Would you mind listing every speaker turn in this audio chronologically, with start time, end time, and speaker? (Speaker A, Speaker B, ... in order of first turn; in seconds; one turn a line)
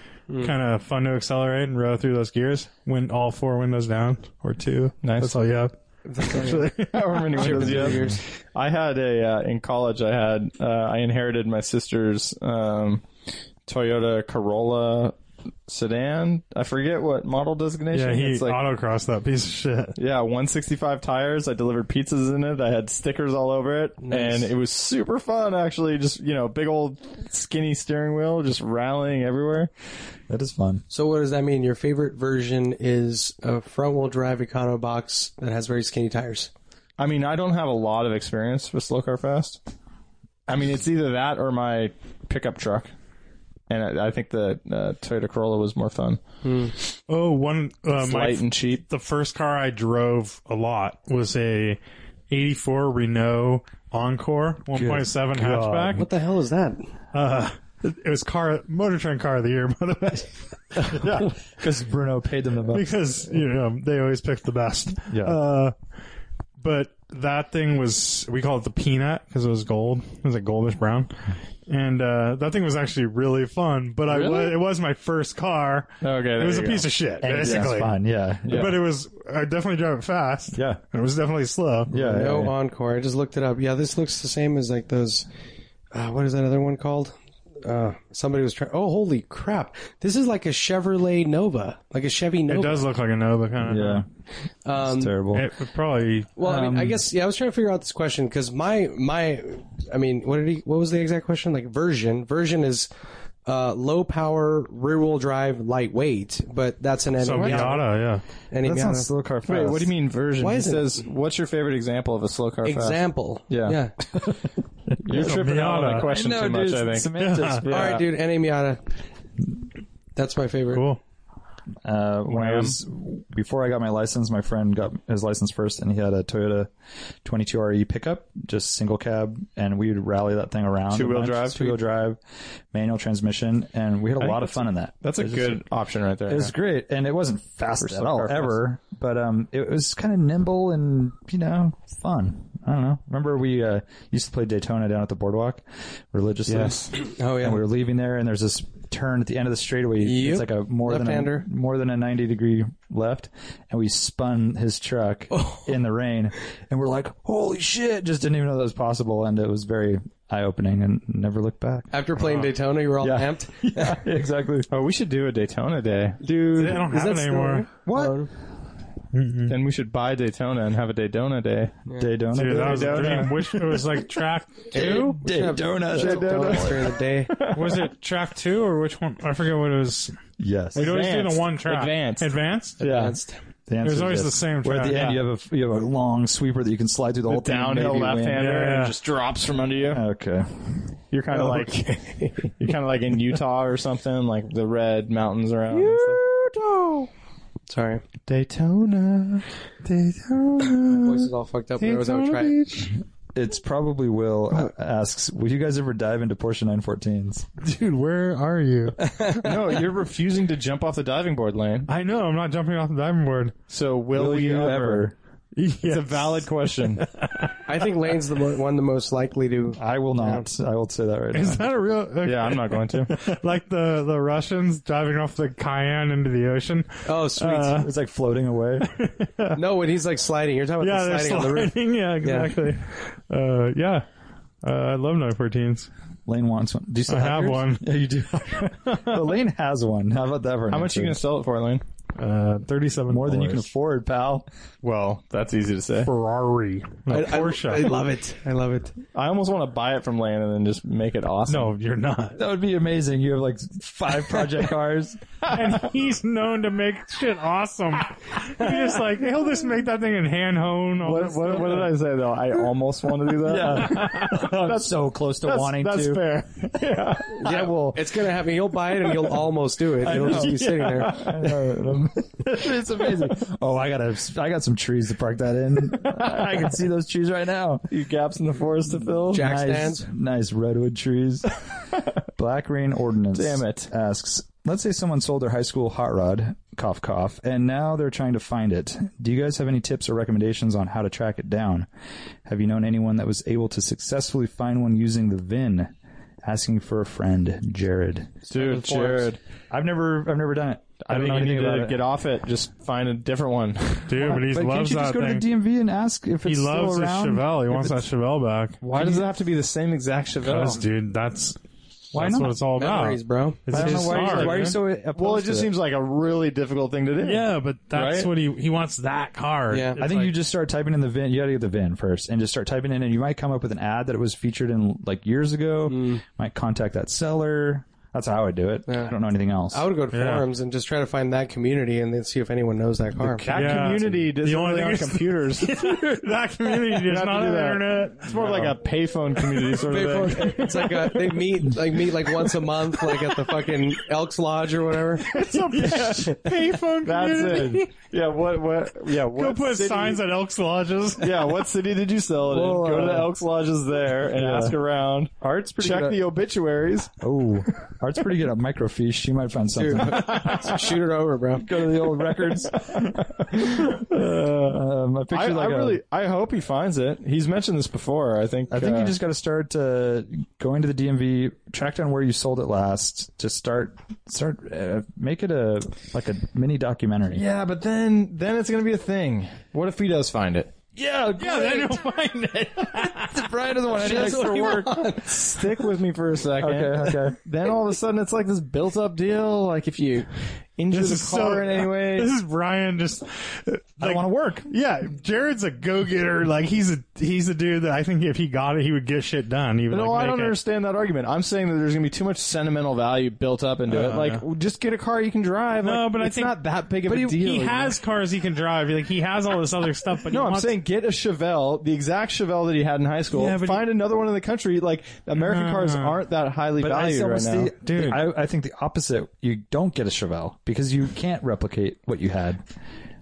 Speaker A: 0.3-0.5
Speaker B: 0.4-8.0
Speaker C: 5.0-5.3
Speaker A: 6.1-6.7
Speaker C: 6.9-13.0
Speaker A: 7.3-8.2
Speaker C: 13.7-15.1
Speaker C: 15.7-18.6
Speaker B: 17.9-19.9
Speaker C: 20.0-29.7
Speaker A: 24.0-24.5
Speaker D: 30.3-30.8
Speaker A: 30.9-36.5
Speaker C: 37.0-39.6
Speaker C: 40.5-42.9
Speaker C: 43.7-46.2
Speaker A: 46.4-46.7
Speaker B: 47.1-51.8
Speaker C: 48.0-48.8
Speaker B: 52.3-56.1
Speaker D: 54.7-56.1
Speaker A: 55.9-56.9
Speaker B: 57.1-61.4
Speaker D: 61.0-62.9
Speaker B: 62.7-65.8
Speaker D: 65.1-65.4
Speaker B: 66.6-71.1
Speaker B: 71.7-78.0
Speaker C: 74.1-74.6
Speaker C: 76.0-76.9
Speaker D: 77.2-78.8
Speaker C: 77.4-77.7
Speaker C: 78.5-78.8
Speaker B: 78.5-81.9
Speaker D: 80.5-80.8
Speaker D: 81.9-82.5
Speaker A: 82.0-85.3
Speaker A: 85.9-92.8
Speaker B: 92.5-94.0
Speaker D: 93.6-94.1
Speaker A: 94.6-95.1
Speaker D: 94.8-95.5
Speaker B: 95.3-96.3
Speaker A: 96.4-102.9
Speaker D: 96.4-97.0
Speaker A: 103.5-107.9
Speaker B: 107.2-108.2
Speaker A: 108.5-109.1
Speaker D: 108.6-109.9
Speaker C: 109.5-113.8
Speaker A: 110.4-111.0
Speaker A: 112.6-113.9
Speaker D: 113.5-118.0
Speaker C: 115.0-118.0
Speaker B: 115.1-116.1
Speaker B: 117.1-117.6
Speaker A: 117.7-118.8
Speaker A: 120.2-120.8
Speaker B: 120.7-121.0
Speaker D: 121.8-126.7
Speaker C: 122.3-122.8
Speaker D: 127.2-132.2
Speaker C: 130.9-131.8
Speaker D: 132.7-135.6
Speaker C: 134.2-136.6
Speaker D: 136.3-161.9
Speaker C: 137.8-138.6
Speaker C: 146.5-146.9
Speaker A: 146.9-147.6
Speaker A: 150.0-151.4
Speaker A: 155.3-155.6
Speaker A: 161.9-164.0
Speaker B: 162.2-162.5
Speaker D: 163.0-164.7
Speaker C: 164.7-166.2
Speaker A: 166.2-168.3
Speaker B: 166.5-167.7
Speaker D: 167.9-168.2
Speaker B: 169.1-169.6
Speaker C: 169.5-171.8
Speaker D: 172.0-173.4
Speaker B: 172.3-175.2
Speaker C: 172.3-174.1
Speaker A: 174.7-177.3
Speaker D: 174.7-176.9
Speaker C: 175.9-177.9
Speaker B: 177.5-180.2
Speaker D: 180.4-180.9
Speaker B: 180.8-182.8
Speaker C: 180.8-183.2
Speaker A: 182.8-183.4
Speaker D: 183.7-188.6
Speaker B: 183.8-185.2
Speaker C: 187.3-190.0
Speaker B: 188.3-188.9
Speaker D: 189.9-190.9
Speaker C: 191.1-196.2
Speaker A: 191.3-192.6
Speaker A: 195.7-197.1
Speaker A: 197.7-198.0
Speaker C: 198.3-201.2
Speaker A: 200.9-202.6
Speaker B: 201.8-202.9
Speaker C: 201.8-202.7
Speaker D: 203.3-207.5
Speaker B: 207.6-209.1
Speaker A: 209.0-209.7
Speaker C: 209.3-211.9
Speaker B: 211.9-213.6
Speaker C: 213.7-215.1
Speaker D: 214.1-215.1
Speaker B: 215.6-217.5
Speaker C: 215.8-217.1
Speaker A: 217.7-220.4
Speaker D: 219.8-221.6
Speaker B: 221.3-227.9
Speaker C: 222.2-223.2
Speaker A: 227.1-227.8
Speaker D: 227.7-228.9
Speaker B: 228.8-229.6
Speaker A: 229.6-232.6
Speaker B: 230.8-234.1
Speaker B: 234.6-235.9
Speaker D: 236.3-241.2
Speaker B: 237.1-237.9
Speaker B: 238.9-239.2
Speaker C: 240.7-241.8
Speaker B: 242.2-243.7
Speaker D: 243.1-244.5
Speaker C: 244.8-246.1
Speaker B: 246.0-248.0
Speaker A: 247.1-248.9
Speaker C: 249.1-251.7
Speaker B: 251.5-252.4
Speaker D: 252.4-255.2
Speaker B: 255.5-261.9
Speaker C: 261.0-264.8
Speaker D: 263.4-268.2
Speaker B: 263.6-264.7
Speaker C: 265.5-267.4
Speaker B: 265.9-266.2
Speaker A: 267.3-271.3
Speaker D: 270.0-277.9
Speaker C: 277.9-279.5
Speaker D: 279.3-281.6
Speaker A: 279.3-280.1
Speaker D: 282.4-291.9
Speaker C: 283.3-283.9
Speaker D: 292.4-295.9
Speaker D: 296.4-302.0
Speaker C: 298.5-299.4
Speaker C: 301.1-304.2
Speaker B: 304.1-305.4
Speaker D: 304.2-308.0
Speaker B: 306.4-309.3
Speaker C: 308.8-310.8
Speaker B: 310.4-311.6
Speaker D: 312.1-312.6
Speaker B: 312.1-314.8
Speaker A: 312.8-314.3
Speaker D: 313.7-315.7
Speaker C: 314.1-318.3
Speaker B: 317.2-320.3
Speaker A: 319.7-320.0
Speaker D: 320.0-329.8
Speaker A: 325.9-326.2
Speaker A: 328.9-329.1
Speaker A: 329.7-333.4
Speaker B: 330.1-330.4
Speaker D: 333.4-334.2
Speaker C: 333.4-336.0
Speaker B: 333.5-338.8
Speaker C: 336.8-340.9
Speaker B: 339.4-339.8
Speaker A: 339.8-345.3
Speaker B: 340.4-340.8
Speaker C: 345.3-346.5
Speaker B: 345.3-347.9
Speaker C: 347.0-350.2
Speaker B: 349.2-351.4
Speaker C: 351.2-357.1
Speaker D: 352.5-353.3
Speaker D: 354.3-354.8
Speaker D: 355.4-356.2
Speaker D: 357.2-360.8
Speaker A: 359.8-361.7
Speaker D: 361.6-366.0
Speaker C: 362.3-369.1
Speaker D: 368.7-377.4
Speaker C: 377.3-380.7
Speaker D: 380.9-382.0
Speaker B: 381.4-383.5
Speaker D: 383.0-385.0
Speaker A: 383.9-385.9
Speaker C: 385.1-392.3
Speaker D: 386.6-387.4
Speaker B: 390.9-400.6
Speaker D: 394.0-394.7
Speaker C: 399.9-408.0
Speaker D: 403.9-404.3
Speaker B: 403.9-404.4
Speaker B: 405.8-406.6
Speaker B: 407.1-410.7
Speaker C: 410.2-417.7
Speaker B: 413.3-413.8
Speaker B: 415.4-416.2
Speaker D: 416.8-422.6
Speaker B: 417.9-418.2